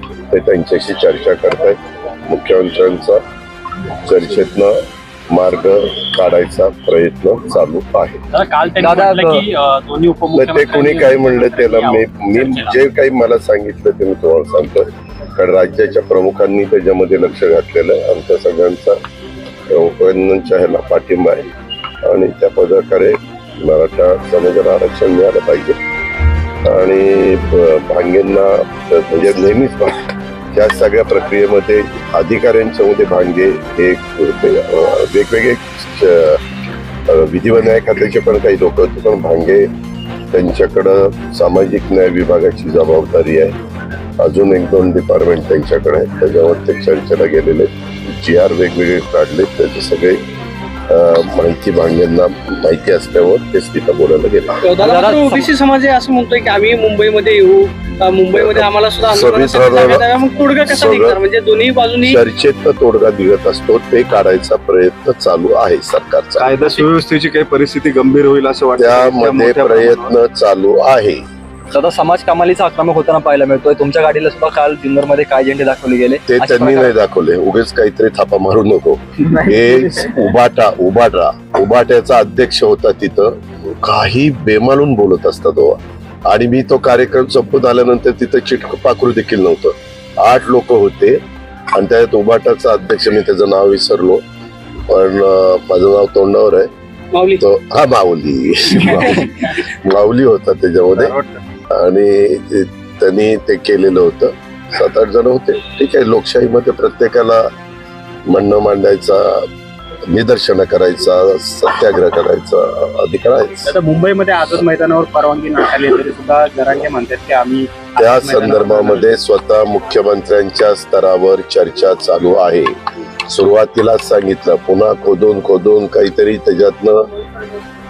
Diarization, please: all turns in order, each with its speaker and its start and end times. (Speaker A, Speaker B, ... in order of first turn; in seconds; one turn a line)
Speaker A: 0.3-3.2
Speaker A: 3.9-8.2
Speaker B: 8.3-12.7
Speaker C: 8.8-9.4
Speaker A: 10.3-19.0
Speaker A: 19.7-21.5
Speaker A: 22.0-25.8
Speaker A: 26.6-36.4
Speaker A: 37.1-39.7
Speaker A: 40.3-43.5
Speaker A: 44.2-50.2
Speaker A: 50.9-54.6
Speaker D: 54.6-62.2
Speaker C: 54.9-55.5
Speaker A: 58.3-60.1
Speaker A: 60.7-61.2
Speaker A: 62.0-66.8
Speaker E: 66.4-70.2
Speaker A: 68.8-71.2
Speaker C: 71.7-76.8
Speaker A: 76.3-91.2
Speaker A: 91.7-94.2
Speaker A: 94.9-96.7
Speaker D: 97.1-97.4
Speaker A: 97.4-101.2
Speaker A: 101.7-107.5
Speaker A: 108.3-109.5
Speaker A: 110.1-113.7
Speaker B: 113.6-119.1
Speaker A: 118.0-122.8
Speaker A: 123.3-127.1